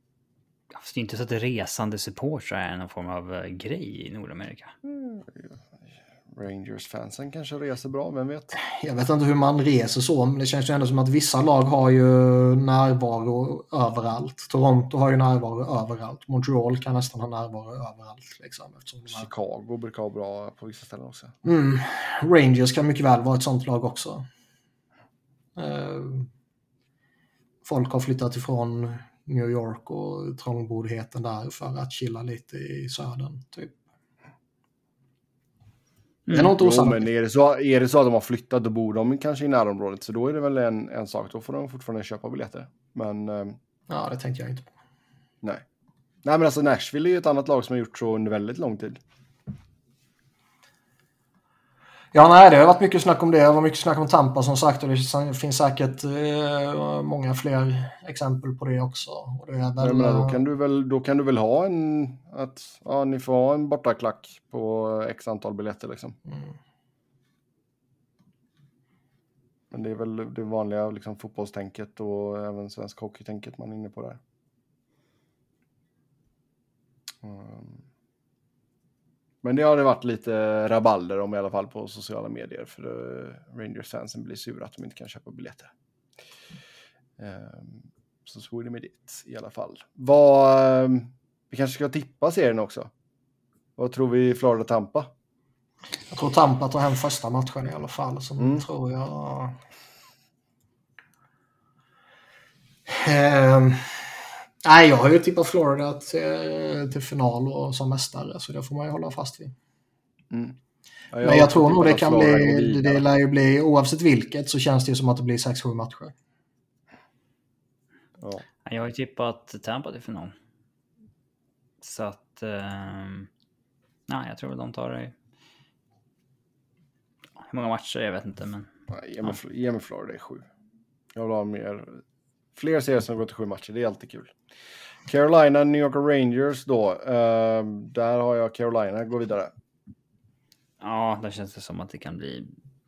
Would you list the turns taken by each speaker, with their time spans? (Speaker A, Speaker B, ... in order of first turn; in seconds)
Speaker A: 0.7-4.7, 36.3-36.5, 118.6-120.3, 121.8-123.3, 124.1-125.1, 127.4-128.7, 140.8-142.5
Speaker B: 4.8-5.7, 6.3-8.6, 19.1-21.3, 36.4-43.6, 46.2-49.0, 59.8-66.2, 69.7-74.2, 77.2-77.8, 79.4-85.7, 87.2-92.9, 93.8-95.1, 98.4-98.6, 110.3-110.6, 111.1-113.0, 118.2-118.4, 128.9-130.5, 131.1-132.0, 132.5-134.3, 135.1-139.5
Speaker C: 8.5-19.3, 21.4-24.2, 25.6-26.3, 27.6-33.8, 36.3-37.0, 43.9-44.7, 52.1-60.4, 66.3-66.5, 96.1-99.6, 102.9-109.5, 111.2-116.1